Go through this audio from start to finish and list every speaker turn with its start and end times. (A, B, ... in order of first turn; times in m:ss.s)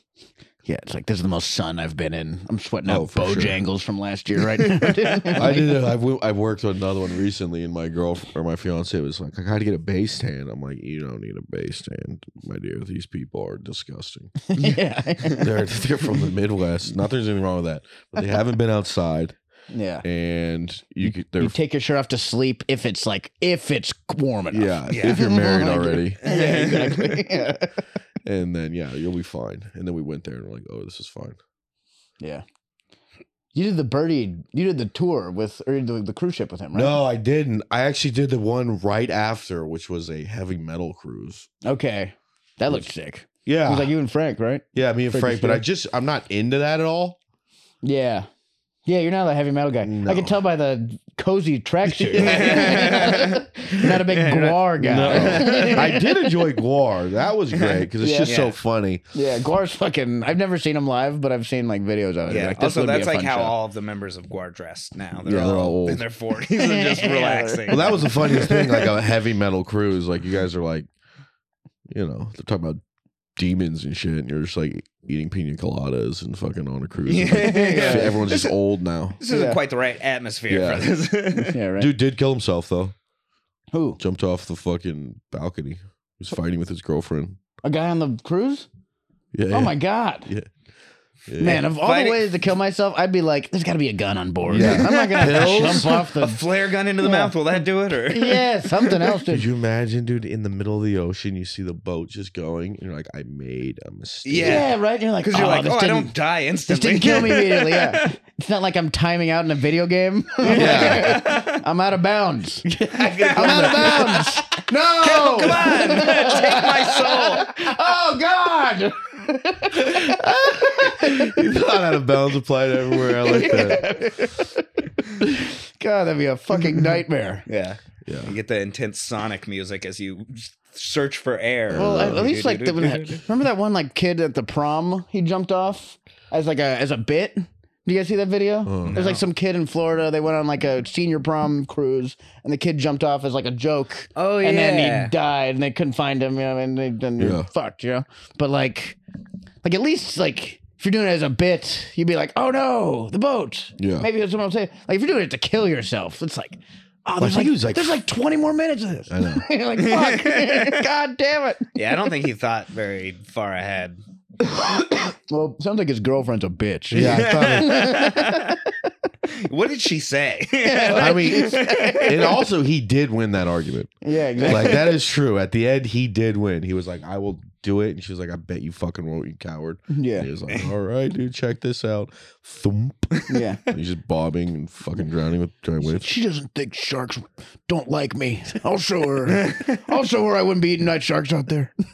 0:00.6-0:05.7 A
0:02.8-0:03.6 B
0:04.5-0:05.3 C
0:05.3-0:14.5 B
0:14.4-0:15.6 A
0:15.2-0:19.3 B
0:19.7-0:20.0 A
0:20.0-0:21.5 B
0:21.4-0:27.8 A
0:24.5-0:26.2 B
0:24.9-0:25.3 C
0:26.2-0:27.3 C
0:28.2-0:31.4 B
0:33.5-0:37.0 A
0:36.7-0:41.5 B
0:41.6-0:45.6 A
0:43.4-0:43.9 B
0:44.7-0:47.2 B
0:47.8-0:48.3 A
0:48.8-0:56.3 A
0:49.8-0:50.4 B
0:51.8-0:53.0 B
0:52.2-0:55.9 C
0:54.8-0:59.0 B
0:57.5-0:58.5 C
0:58.0-0:58.4 A
0:59.1-1:03.5 A
1:02.3-1:09.0 C
1:05.2-1:06.0 B
1:06.4-1:08.3 A
1:07.7-1:10.9 B
1:11.9-1:12.8 B
1:13.4-1:19.2 B
1:17.0-1:18.6 C
1:17.4-1:18.2 A
1:19.2-1:21.6 C
1:19.3-1:19.6 A
1:20.5-1:20.9 B
1:21.5-1:21.9 A
1:21.8-1:22.9 B
1:23.7-1:24.0 A
1:24.0-1:27.4 B
1:27.6-1:28.7 A
1:29.3-1:30.5 B
1:29.5-1:30.3 A
1:31.3-1:31.6 B
1:31.4-1:36.4 A
1:31.6-1:32.3 C
1:34.5-1:35.9 B
1:34.5-1:39.2 C
1:37.0-1:39.4 A
1:39.3-1:44.7 B
1:44.2-1:48.1 C
1:44.4-1:46.1 A
1:46.7-1:52.7 A
1:50.4-1:51.6 C
1:50.4-1:51.3 B
1:52.7-1:54.3 B
1:52.9-1:57.5 C
1:53.3-2:01.4 A
1:59.7-2:03.9 B
2:03.0-2:04.6 A
2:03.5-2:03.8 C
2:05.2-2:07.4 A
2:07.5-2:13.2 C
2:08.0-2:08.4 B
2:11.7-2:12.3 B
2:11.7-2:29.0 A
2:18.6-2:19.0 B
2:18.9-2:19.2 C
2:24.2-2:25.1 C
2:27.2-2:27.5 B
2:29.6-2:41.8 A
2:33.8-2:34.1 B
2:37.2-2:38.0 B
2:39.1-2:39.4 B
2:39.8-2:40.8 C
2:41.7-2:44.0 C
2:45.3-2:48.7 A
2:46.9-2:47.9 B
2:47.0-2:48.6 C
2:49.3-2:52.3 C
2:50.6-2:52.3 A
2:50.9-2:53.9 B
2:54.0-2:54.9 A
2:54.4-2:54.9 C
2:54.4-3:06.1 B
2:59.9-3:00.3 A
3:03.2-3:03.4 C
3:03.3-3:03.6 A
3:05.8-3:11.7 A
3:09.3-3:09.8 C